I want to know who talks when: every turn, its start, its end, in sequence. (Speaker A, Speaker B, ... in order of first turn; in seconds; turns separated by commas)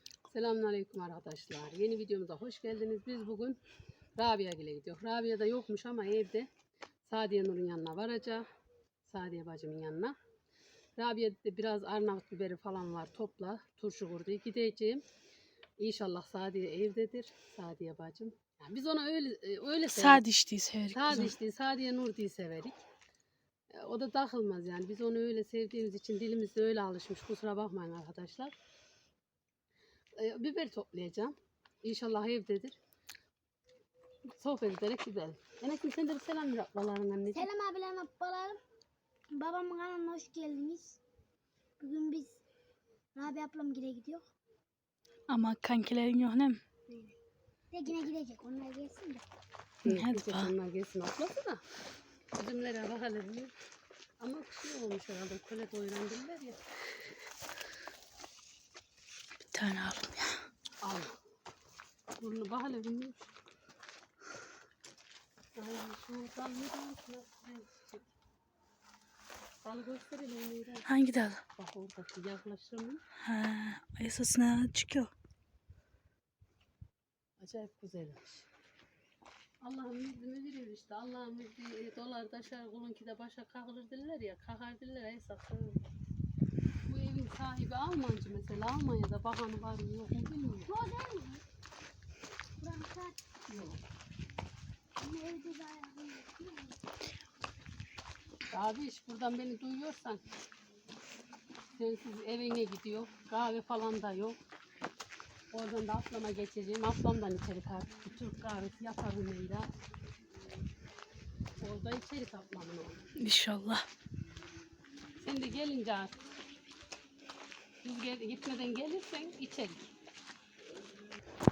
Speaker A: 0.3-3.6, Speaker A: 4.2-6.5, Speaker A: 7.1-8.4, Speaker A: 9.1-10.2, Speaker A: 11.0-15.0, Speaker A: 15.8-20.2, Speaker B: 19.9-21.3, Speaker A: 20.9-22.8, Speaker A: 23.7-28.5, Speaker A: 30.2-32.8, Speaker A: 34.3-37.5, Speaker C: 37.3-38.6, Speaker C: 39.3-41.0, Speaker C: 41.8-42.4, Speaker C: 43.2-44.2, Speaker B: 45.3-46.6, Speaker C: 47.7-49.2, Speaker B: 49.9-50.5, Speaker A: 49.9-51.6, Speaker A: 52.4-53.5, Speaker A: 54.2-56.6, Speaker B: 59.5-60.4, Speaker A: 60.8-61.2, Speaker A: 62.2-63.3, Speaker A: 65.6-68.1, Speaker A: 69.6-70.8, Speaker B: 70.9-71.4, Speaker A: 71.6-73.0, Speaker B: 73.2-75.1, Speaker A: 77.4-78.4, Speaker A: 79.6-85.8, Speaker A: 86.9-90.7, Speaker C: 90.7-91.4, Speaker C: 92.6-93.2, Speaker A: 93.5-93.8, Speaker C: 95.0-96.8, Speaker A: 98.5-100.2, Speaker A: 101.8-104.4, Speaker A: 105.5-109.7, Speaker A: 111.6-113.0, Speaker B: 113.2-113.8, Speaker A: 115.2-116.2, Speaker A: 117.8-119.9